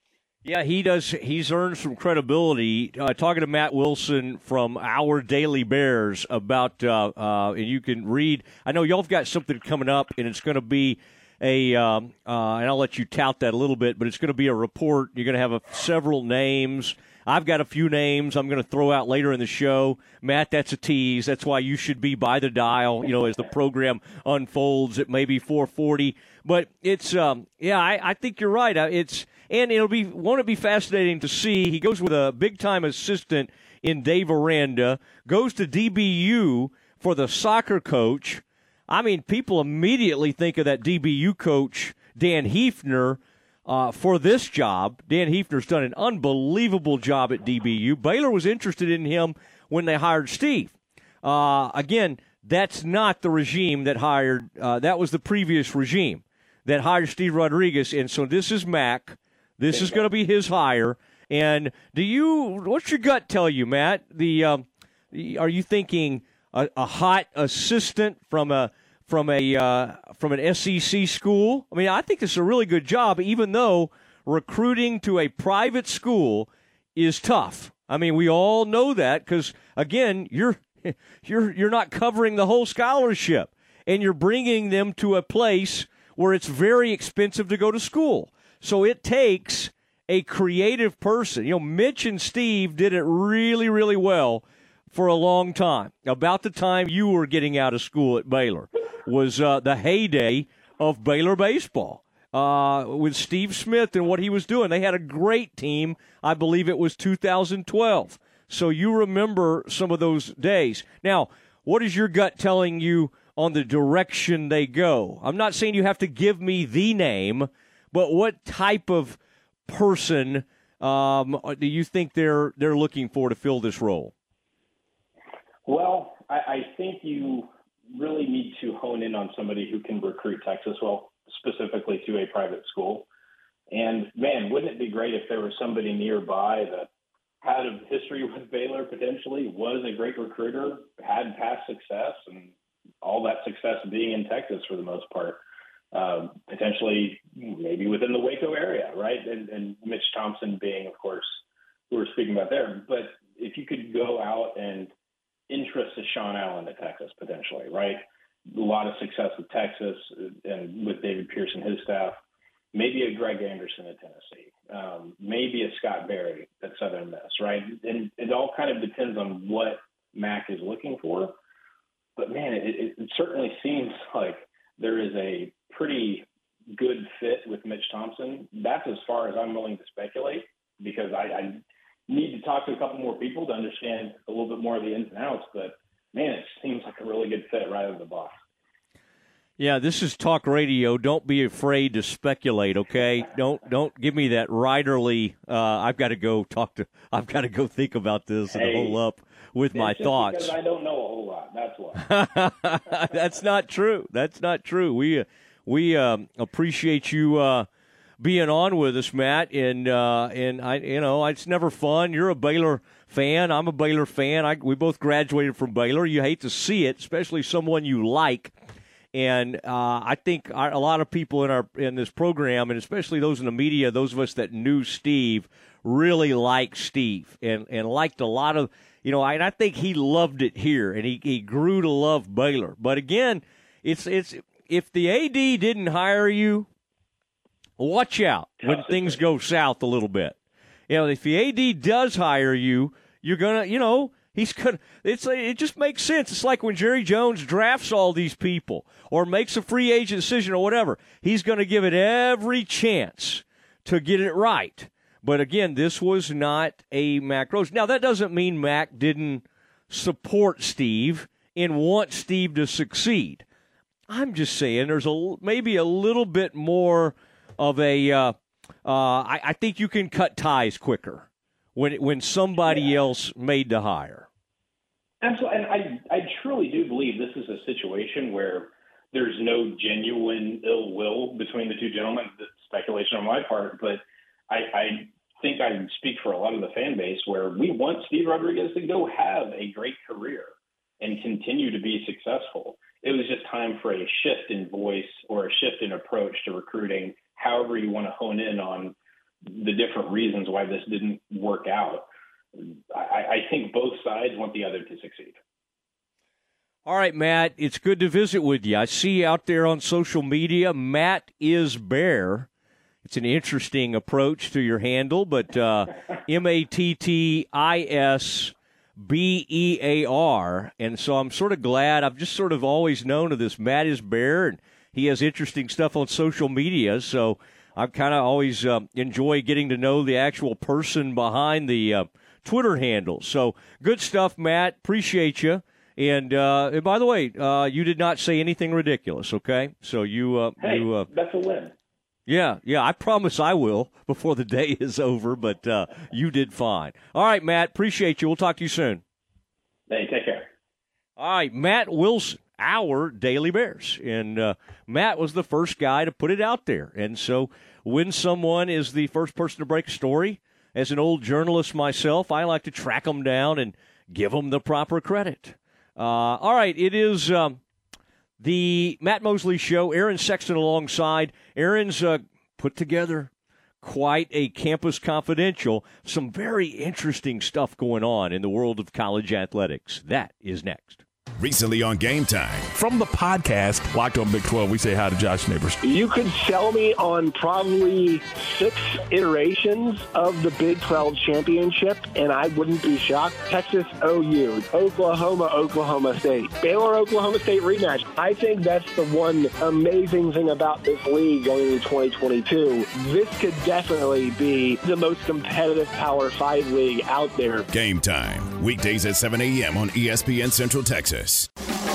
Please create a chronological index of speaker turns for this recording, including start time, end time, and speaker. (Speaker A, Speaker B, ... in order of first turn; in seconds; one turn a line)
Speaker A: 0.4-124.1
Speaker B: 59.7-60.0
Speaker B: 125.7-133.1
Speaker B: 133.7-136.9
Speaker B: 137.4-145.4
Speaker B: 145.9-154.9
Speaker B: 155.5-162.2
Speaker B: 162.7-171.4
Speaker B: 172.2-188.4
Speaker A: 189.6-200.6
Speaker B: 198.5-199.0
Speaker B: 199.7-202.1
Speaker A: 202.0-207.7
Speaker A: 208.2-218.5
Speaker A: 219.1-236.7
Speaker A: 237.8-240.4
Speaker B: 238.7-239.2
Speaker A: 240.9-263.4
Speaker A: 264.1-268.4
Speaker A: 268.9-274.3
Speaker B: 272.7-273.0
Speaker B: 275.2-298.9
Speaker B: 299.5-305.4
Speaker A: 306.9-312.5
Speaker A: 313.0-341.1
Speaker B: 340.6-341.7
Speaker A: 342.3-349.0
Speaker B: 349.9-350.5
Speaker A: 351.2-367.6
Speaker A: 368.4-373.3
Speaker A: 373.8-381.0
Speaker C: 381.4-382.7
Speaker D: 382.8-385.8
Speaker E: 385.8-407.7
Speaker C: 407.7-411.5